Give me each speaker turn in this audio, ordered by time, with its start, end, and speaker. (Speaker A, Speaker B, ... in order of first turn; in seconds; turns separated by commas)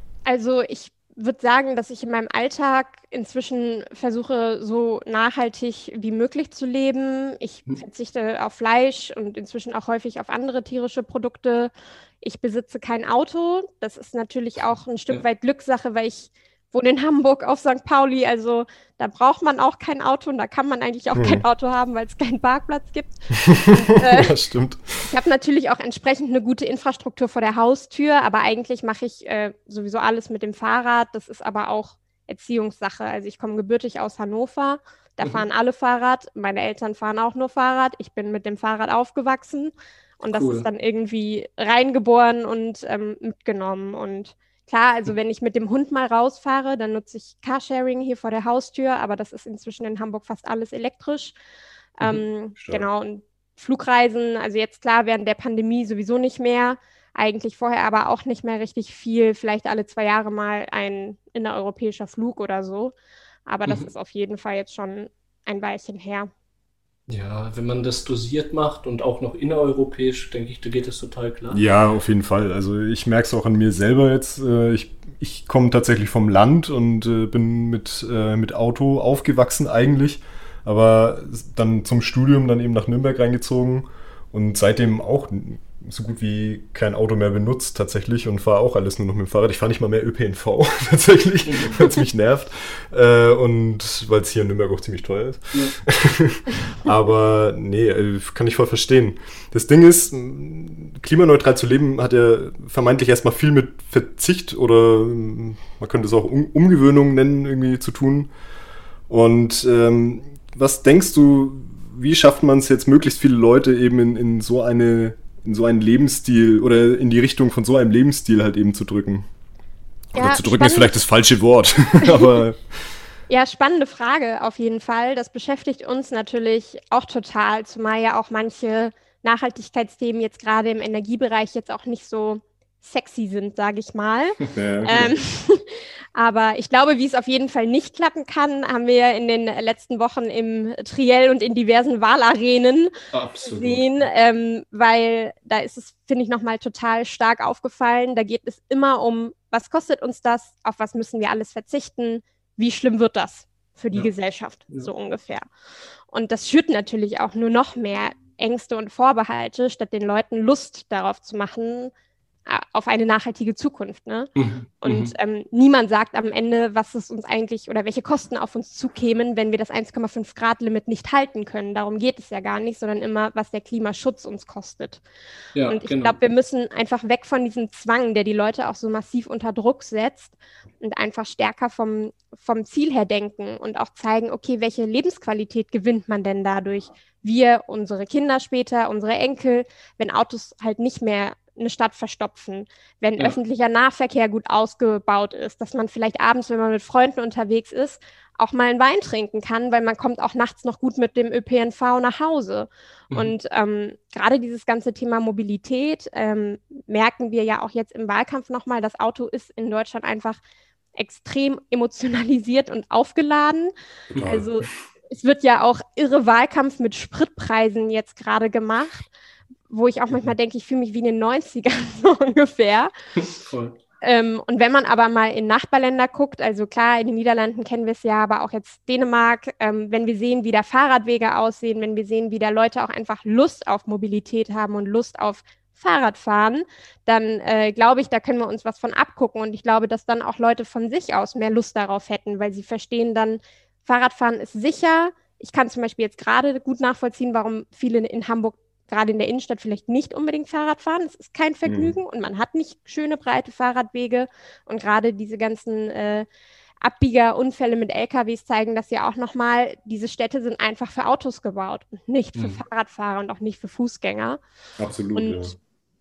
Speaker A: 0.3-24.4, Speaker B: 21.1-21.4, Speaker B: 23.5-25.1, Speaker A: 25.0-51.4, Speaker C: 40.3-40.7, Speaker A: 52.0-62.9, Speaker B: 52.6-52.9, Speaker A: 63.5-66.3, Speaker C: 67.1-71.6, Speaker B: 71.5-108.3, Speaker C: 91.5-91.8, Speaker B: 109.1-119.2, Speaker B: 120.1-122.8, Speaker A: 120.2-120.9, Speaker A: 123.3-155.4, Speaker B: 134.5-135.2, Speaker C: 143.1-143.9, Speaker A: 156.1-161.9, Speaker A: 162.5-164.3, Speaker C: 164.4-165.2, Speaker A: 164.8-175.0, Speaker C: 175.6-176.2, Speaker A: 175.7-210.4, Speaker A: 211.0-213.7, Speaker B: 214.2-214.5, Speaker A: 214.3-219.1, Speaker A: 219.7-222.9, Speaker C: 223.2-223.8, Speaker A: 224.0-256.3, Speaker B: 251.7-251.9, Speaker A: 256.8-264.4, Speaker C: 262.4-262.6, Speaker B: 264.8-265.5, Speaker A: 265.1-265.5